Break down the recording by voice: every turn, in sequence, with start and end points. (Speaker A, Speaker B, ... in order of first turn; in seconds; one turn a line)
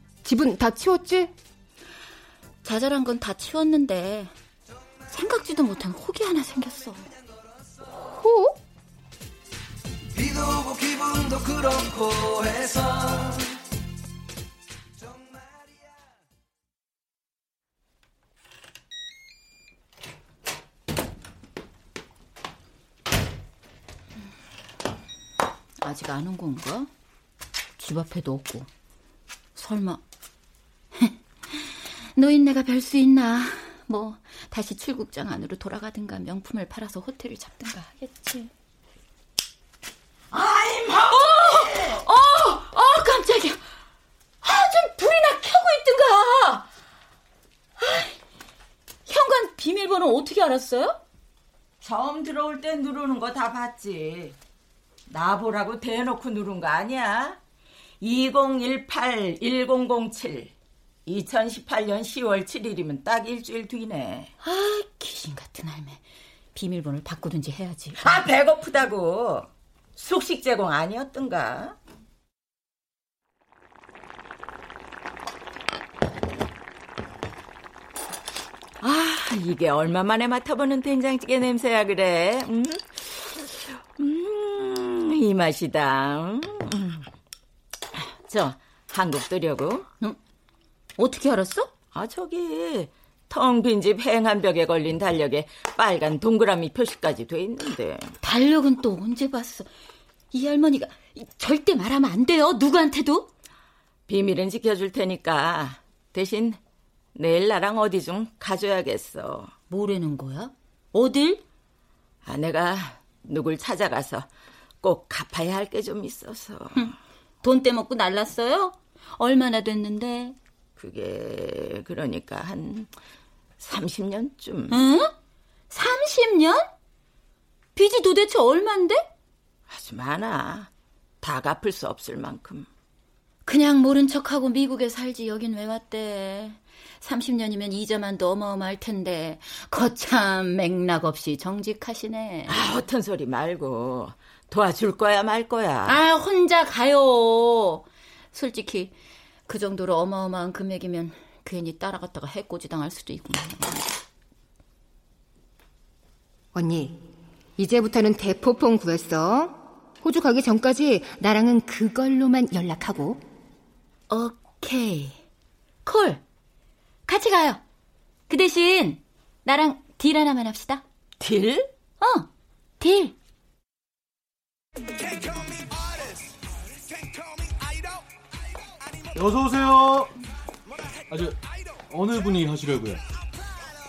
Speaker A: 0.2-1.3
Speaker B: 2.6-4.3
Speaker B: 5.1-7.1
Speaker A: 8.1-8.5
Speaker C: 10.5-12.7
Speaker B: 25.8-26.9
Speaker B: 27.8-28.7
Speaker B: 29.6-30.0
Speaker B: 31.0-38.5
Speaker D: 40.3-42.0
Speaker B: 41.1-43.6
Speaker B: 44.4-46.6
Speaker B: 47.8-48.1
Speaker B: 49.0-51.0
Speaker D: 51.8-54.4
Speaker D: 55.1-57.4
Speaker D: 58.0-60.5
Speaker D: 61.0-64.3
Speaker B: 64.4-66.0
Speaker B: 66.5-68.2
Speaker D: 68.0-71.8
Speaker D: 78.8-87.0
Speaker D: 87.9-89.9
Speaker B: 91.0-91.7
Speaker D: 91.9-98.2
Speaker B: 98.2-99.7
Speaker B: 100.3-103.3
Speaker D: 104.1-106.6
Speaker D: 107.1-109.5
Speaker B: 109.7-111.4
Speaker D: 112.2-114.2
Speaker D: 114.8-116.9
Speaker B: 116.7-120.3
Speaker D: 120.8-122.9
Speaker D: 123.6-124.8
Speaker B: 124.7-125.1
Speaker B: 125.7-126.7
Speaker B: 127.8-129.1
Speaker D: 129.7-130.7
Speaker D: 131.2-132.7
Speaker B: 133.4-142.6
Speaker D: 142.5-146.0
Speaker B: 145.9-148.9
Speaker B: 149.5-153.9
Speaker A: 156.5-157.0
Speaker A: 157.6-163.2
Speaker B: 164.1-165.2
Speaker B: 165.8-166.2
Speaker B: 167.1-167.6
Speaker B: 168.3-170.8
Speaker D: 171.2-171.7
Speaker B: 172.0-172.3
Speaker B: 172.8-173.1
Speaker E: 179.1-180.1
Speaker E: 181.1-181.4
Speaker E: 181.9-183.0